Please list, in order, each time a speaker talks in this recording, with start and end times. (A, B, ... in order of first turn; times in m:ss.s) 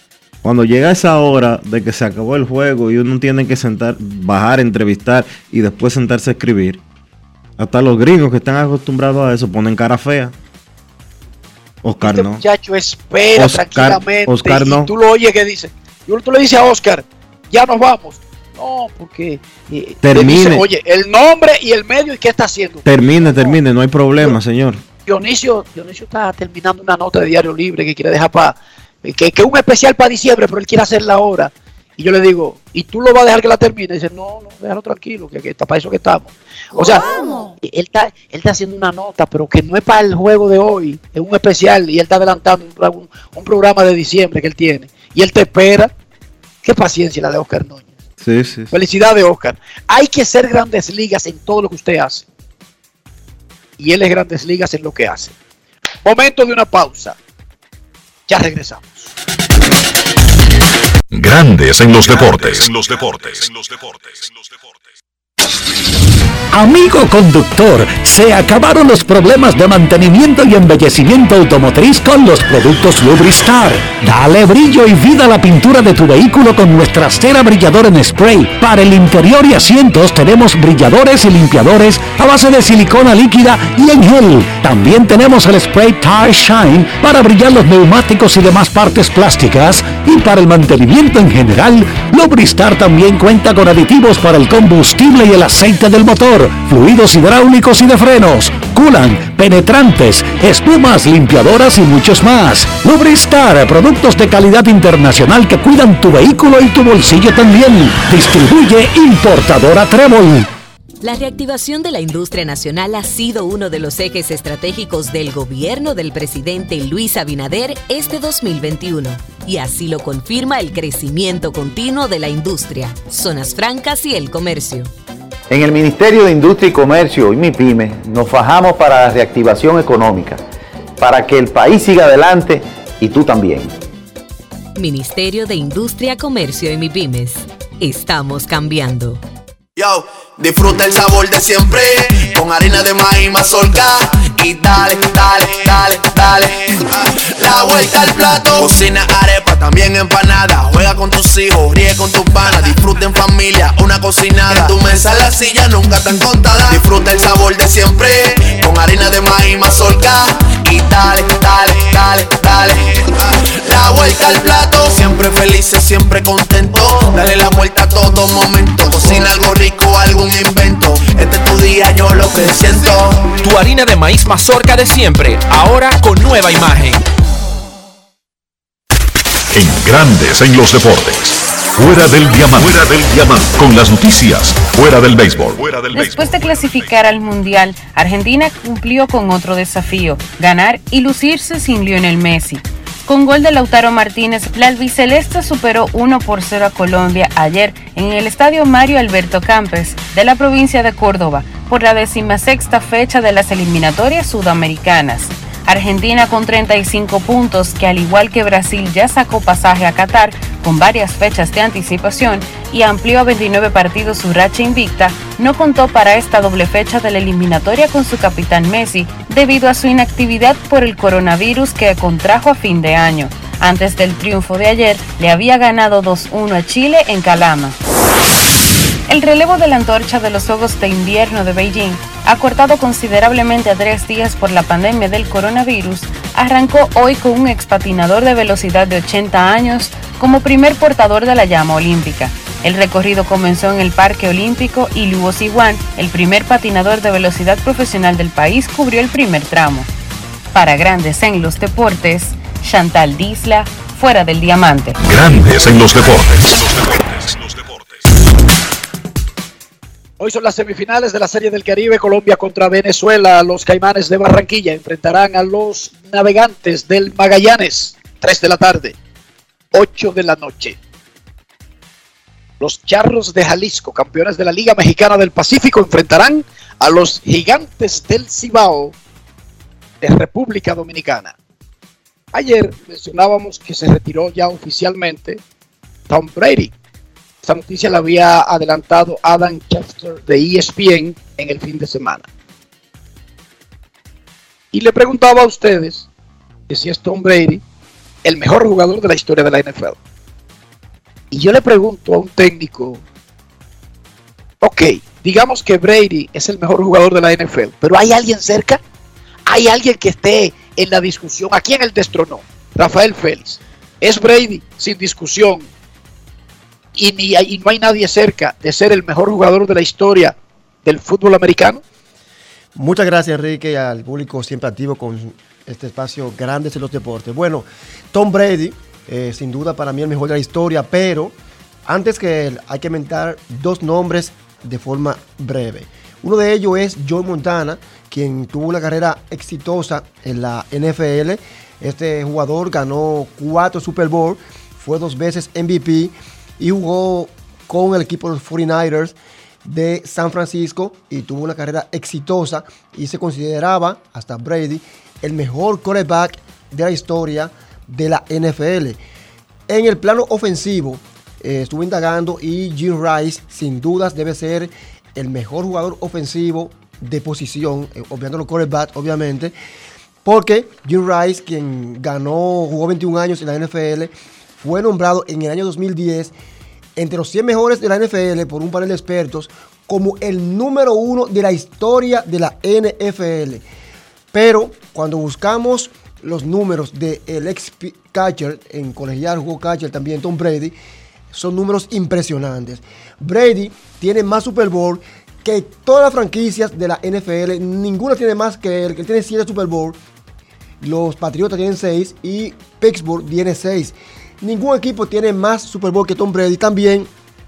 0:00.4-0:06.8 A
0:07.6-0:10.3 A
0:11.8-0:12.4 A
0:12.0-0:22.9 B
0:13.4-0:14.9 A
0:20.0-0:20.7 A
0:22.8-0:24.8 A
0:25.1-0:37.0 B
0:37.6-0:45.9 B
0:46.6-0:47.9 B
0:48.2-0:48.7 A
0:48.7-0:52.3 B
0:53.8-0:55.4 B
0:56.0-0:57.2 B
0:58.3-0:59.1 B
1:01.1-1:04.0 C
1:06.5-1:50.5 D
1:51.0-2:04.9 E
2:05.5-2:10.4 F
2:11.0-2:13.7 F
2:14.8-2:19.2 E
2:19.8-2:53.3 G
2:53.4-2:57.0 H
2:59.5-3:06.6 C
3:05.9-3:47.8 I
3:49.1-4:09.9 I
4:10.5-4:15.0 I
4:15.0-4:17.9 C
4:20.2-4:29.0 B
4:29.7-4:30.8 B
4:32.6-4:39.0 B
4:40.0-4:41.4 B
4:42.3-4:45.4 B
4:46.1-4:46.7 B
4:47.4-4:52.3 B
4:54.7-4:56.1 B
4:56.7-4:57.6 B
4:58.2-5:00.0 B
5:01.3-5:03.0 B
5:04.6-5:08.8 B
5:09.5-5:15.7 B
5:17.0-5:21.8 B
5:22.8-5:59.0 J
5:59.7-6:09.5 J
6:10.2-6:16.3 J
6:17.0-6:23.6 J
6:24.3-6:30.7 J
6:31.3-6:40.0 J
6:40.8-6:47.1 J